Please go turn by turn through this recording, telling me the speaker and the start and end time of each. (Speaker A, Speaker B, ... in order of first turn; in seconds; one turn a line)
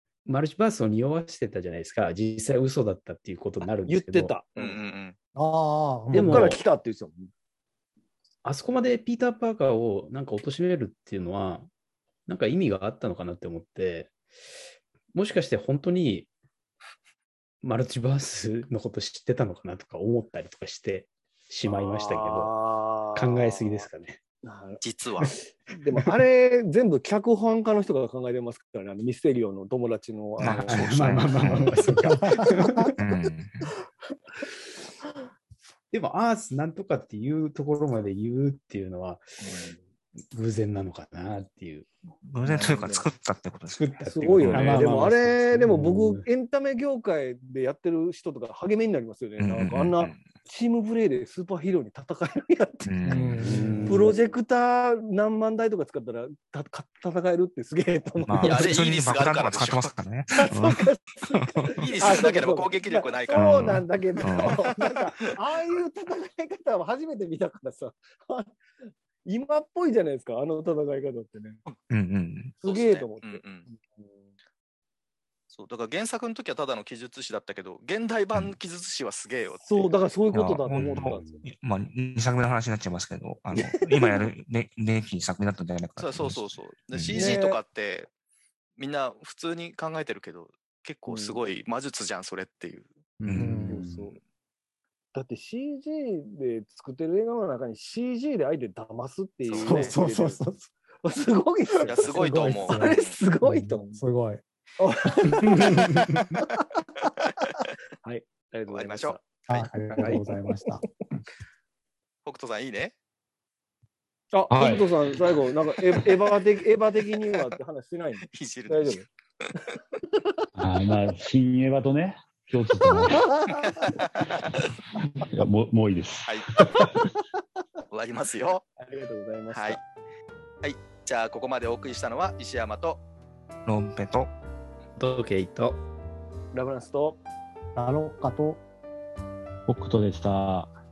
Speaker A: 0.2-4.4
Speaker B: 3.9-4.8
Speaker C: 4.5-5.2
Speaker D: 5.3-6.5
Speaker A: 6.1-6.6
Speaker B: 6.2-7.3
Speaker A: 8.4-11.7
Speaker A: 12.3-14.1
Speaker A: 15.1-16.3
Speaker A: 17.6-22.6
Speaker B: 21.6-23.9
Speaker A: 23.1-24.2
Speaker B: 24.4-31.6
Speaker C: 24.8-25.4
Speaker E: 30.4-32.2
Speaker A: 30.4-33.0
Speaker D: 32.0-32.9
Speaker E: 33.0-33.7
Speaker A: 35.9-39.3
Speaker B: 39.4-39.8
Speaker A: 40.3-41.9
Speaker E: 42.2-44.9
Speaker B: 42.5-43.0
Speaker A: 43.7-46.3
Speaker B: 44.1-53.3
Speaker E: 49.4-50.2
Speaker E: 52.9-53.5
Speaker D: 53.0-54.1
Speaker A: 53.4-54.1
Speaker B: 53.9-58.8
Speaker E: 58.3-61.9
Speaker C: 58.4-59.9
Speaker B: 60.4-68.5
Speaker C: 61.8-65.3
Speaker E: 63.4-64.7
Speaker B: 69.2-71.6
Speaker E: 71.9-72.6
Speaker B: 72.6-74.3
Speaker C: 72.6-73.7
Speaker C: 75.5-79.9
Speaker B: 79.6-81.4
Speaker E: 80.3-87.4
Speaker A: 80.8-81.5
Speaker B: 83.6-84.3
Speaker C: 86.0-88.1
Speaker B: 87.1-87.6
Speaker C: 88.8-93.0
Speaker B: 91.1-91.4
Speaker E: 93.2-93.7
Speaker A: 93.3-94.2
Speaker D: 93.3-93.8
Speaker B: 93.7-94.2
Speaker B: 95.1-100.4
Speaker C: 99.5-100.0
Speaker D: 99.6-100.6
Speaker B: 101.0-104.0
Speaker C: 101.8-103.2
Speaker D: 102.0-104.4
Speaker B: 104.8-106.0
Speaker D: 105.2-105.7
Speaker C: 106.0-106.4
Speaker B: 108.0-109.2
Speaker C: 108.7-109.7
Speaker D: 109.5-110.8
Speaker B: 109.9-110.3
Speaker C: 112.2-112.9
Speaker B: 114.3-119.1
Speaker F: 114.5-114.9
Speaker C: 118.3-119.5
Speaker F: 120.6-123.7
Speaker C: 123.6-124.3
Speaker F: 125.0-127.0
Speaker C: 126.3-126.9
Speaker C: 127.9-128.7
Speaker B: 128.8-129.8
Speaker C: 129.5-129.8
Speaker C: 130.6-133.0
Speaker E: 133.7-134.3
Speaker A: 135.0-135.8
Speaker B: 136.5-137.2
Speaker D: 137.8-138.6
Speaker F: 139.7-140.7